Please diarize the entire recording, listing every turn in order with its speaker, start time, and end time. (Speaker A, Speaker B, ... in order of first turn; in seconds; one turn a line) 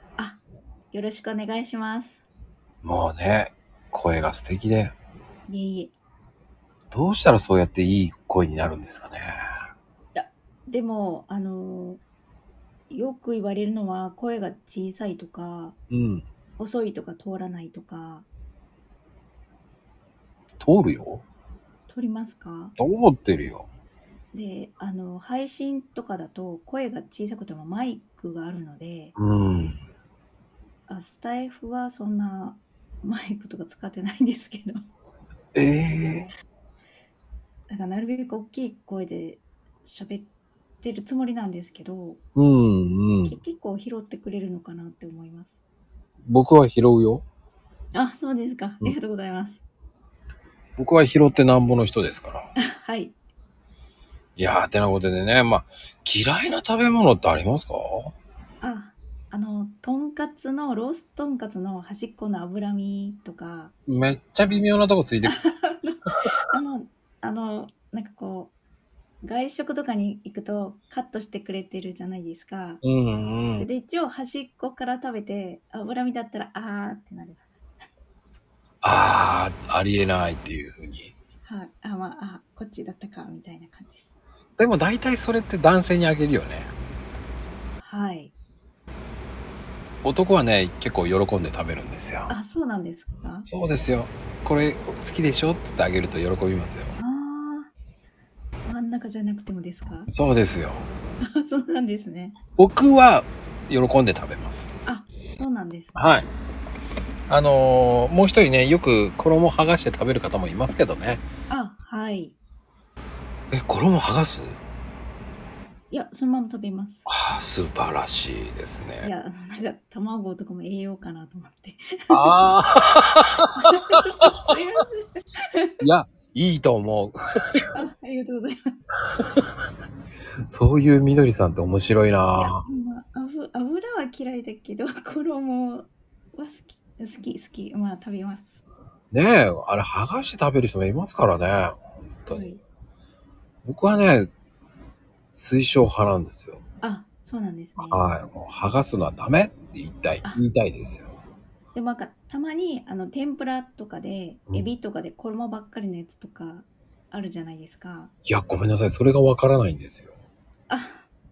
Speaker A: 0.2-2.2
Speaker B: 2.8-4.9
Speaker A: 5.5-5.9
Speaker B: 6.9-9.4
Speaker A: 10.1-12.0
Speaker A: 12.9-15.8
Speaker B: 15.9-16.2
Speaker A: 16.6-18.3
Speaker B: 20.6-21.2
Speaker A: 21.9-22.7
Speaker B: 22.8-23.6
Speaker A: 24.3-29.2
Speaker B: 29.2-29.8
Speaker A: 30.9-34.8
Speaker B: 35.5-36.3
Speaker A: 37.7-40.3
Speaker A: 40.8-42.2
Speaker B: 42.4-43.4
Speaker A: 43.2-45.6
Speaker B: 46.3-47.2
Speaker A: 47.9-49.6
Speaker B: 50.8-52.5
Speaker A: 52.5-53.2
Speaker B: 54.4-58.1
Speaker A: 58.6-63.7
Speaker B: 63.9-65.4
Speaker A: 65.2-68.5
Speaker A: 69.2-72.8
Speaker B: 72.8-73.7
Speaker A: 73.5-77.6
Speaker B: 78.8-81.1
Speaker A: 81.4-84.1
Speaker B: 84.6-86.7
Speaker A: 87.8-88.3
Speaker B: 90.0-92.3
Speaker A: 92.3-93.5
Speaker B: 93.5-96.9
Speaker A: 96.9-97.7
Speaker A: 98.7-100.1
Speaker B: 100.1-100.9
Speaker A: 101.2-102.4
Speaker B: 102.6-104.7
Speaker A: 104.8-106.0
Speaker B: 105.9-106.3
Speaker B: 107.3-111.2
Speaker A: 111.5-112.3
Speaker B: 113.5-114.6
Speaker A: 115.9-117.1
Speaker B: 117.1-119.1
Speaker A: 119.0-122.3
Speaker B: 122.1-123.5
Speaker A: 123.5-125.8
Speaker B: 125.8-127.7
Speaker A: 127.7-128.8
Speaker B: 130.5-132.6
Speaker A: 132.4-138.6
Speaker B: 139.1-142.6
Speaker A: 142.3-142.6
Speaker B: 143.6-144.3
Speaker B: 145.3-146.6
Speaker A: 146.8-148.0
Speaker B: 147.8-151.1
Speaker A: 151.7-158.1
Speaker B: 158.2-160.1
Speaker A: 160.7-161.0